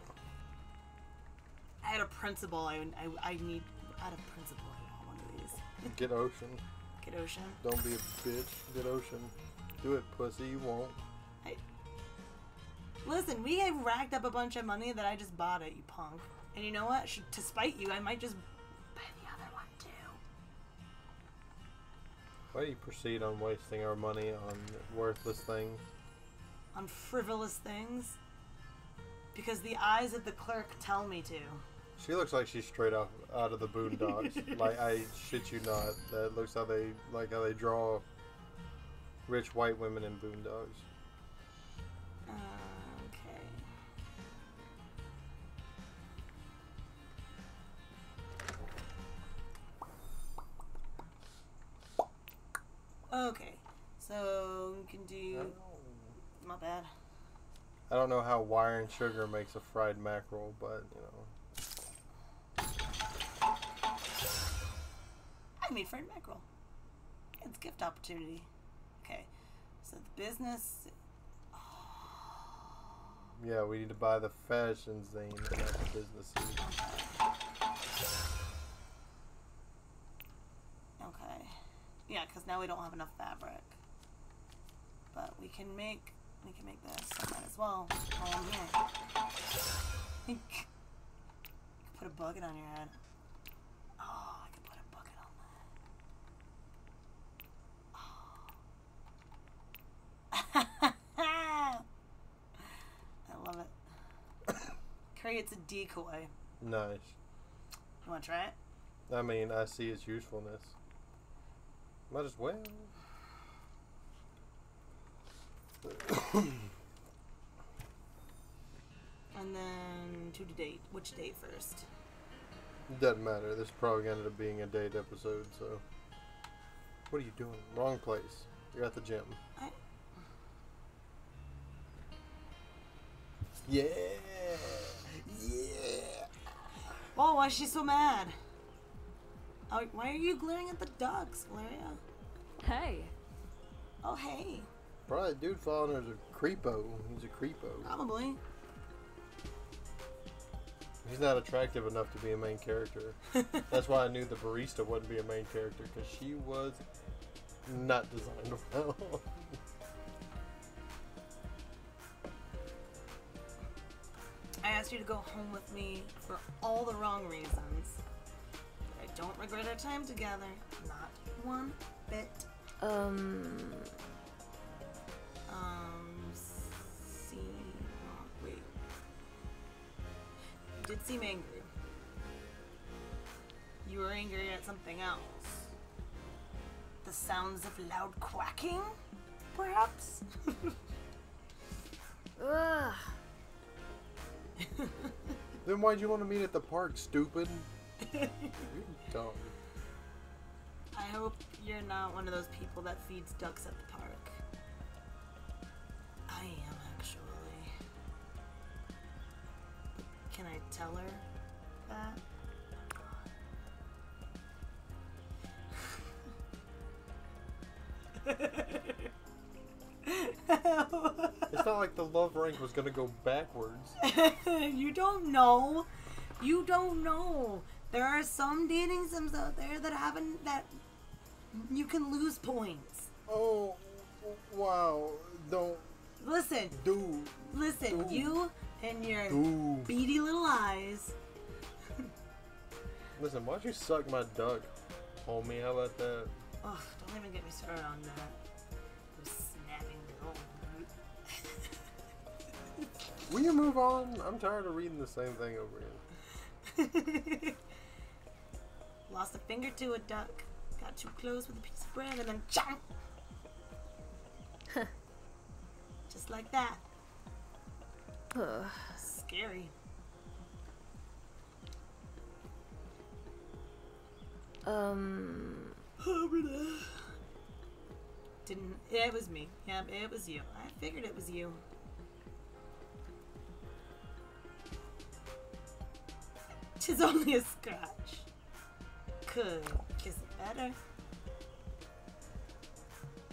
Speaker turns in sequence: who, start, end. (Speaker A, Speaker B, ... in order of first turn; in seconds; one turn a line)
Speaker A: 1.8-6.0
Speaker B: 5.9-6.6
Speaker A: 7.0-7.6
Speaker B: 7.6-11.0
Speaker A: 13.1-18.4
Speaker A: 18.9-20.2
Speaker B: 22.5-25.9
Speaker A: 26.7-28.2
Speaker A: 29.3-31.6
Speaker B: 32.0-38.0
Speaker A: 34.0-34.6
Speaker B: 39.3-40.9
Speaker A: 42.3-43.6
Speaker A: 53.1-55.6
Speaker B: 55.3-56.2
Speaker A: 56.4-56.9
Speaker B: 57.9-61.3
Speaker A: 65.6-66.5
Speaker A: 67.4-68.5
Speaker A: 69.0-69.3
Speaker A: 69.8-70.9
Speaker A: 71.5-72.6
Speaker B: 73.4-76.6
Speaker A: 76.6-77.2
Speaker A: 81.0-83.8
Speaker A: 85.1-88.8
Speaker A: 90.3-90.7
Speaker A: 91.9-93.0
Speaker A: 94.0-95.6
Speaker A: 98.0-98.5
Speaker A: 100.3-101.8
Speaker A: 103.3-103.7
Speaker A: 105.1-106.3
Speaker B: 106.6-107.2
Speaker A: 108.0-108.5
Speaker B: 109.1-110.8
Speaker B: 112.1-112.9
Speaker B: 115.8-116.7
Speaker A: 119.3-121.9
Speaker B: 122.9-125.8
Speaker B: 127.1-129.4
Speaker B: 133.7-136.3
Speaker A: 137.2-138.4
Speaker A: 139.7-142.0
Speaker C: 142.6-143.1
Speaker A: 144.0-144.7
Speaker B: 145.1-148.0
Speaker A: 147.8-148.4
Speaker B: 151.0-156.8
Speaker A: 153.4-153.6
Speaker B: 157.7-159.4
Speaker A: 164.6-168.0
Speaker A: 168.9-172.5
Speaker C: 172.8-173.9
Speaker A: 175.5-178.7
Speaker A: 180.8-181.7
Speaker A: 183.8-185.7
Speaker A: 187.0-188.9
Speaker A: 189.5-190.8
Speaker C: 192.4-193.1
Speaker A: 194.6-195.1
Speaker B: 195.6-197.7
Speaker A: 198.0-198.7
Speaker B: 198.6-199.5
Speaker A: 200.9-204.4
Speaker A: 206.3-207.7
Speaker A: 210.0-211.3
Speaker A: 211.9-212.2
Speaker A: 218.2-219.1
Speaker A: 220.0-221.6
Speaker B: 221.5-224.0
Speaker A: 224.0-225.9
Speaker A: 226.4-230.8
Speaker A: 231.5-233.1
Speaker B: 233.3-235.9
Speaker A: 236.2-236.8
Speaker B: 236.7-238.4
Speaker A: 237.4-241.2
Speaker B: 239.3-239.9
Speaker B: 243.2-246.3
Speaker A: 246.6-248.4
Speaker A: 249.1-251.7
Speaker B: 253.3-256.0
Speaker A: 256.6-257.6
Speaker A: 259.1-262.9
Speaker A: 266.1-266.8
Speaker C: 268.3-269.0
Speaker A: 269.0-269.7
Speaker C: 274.7-275.8
Speaker A: 276.0-277.1
Speaker A: 278.4-281.6
Speaker A: 286.8-288.3
Speaker A: 289.2-290.8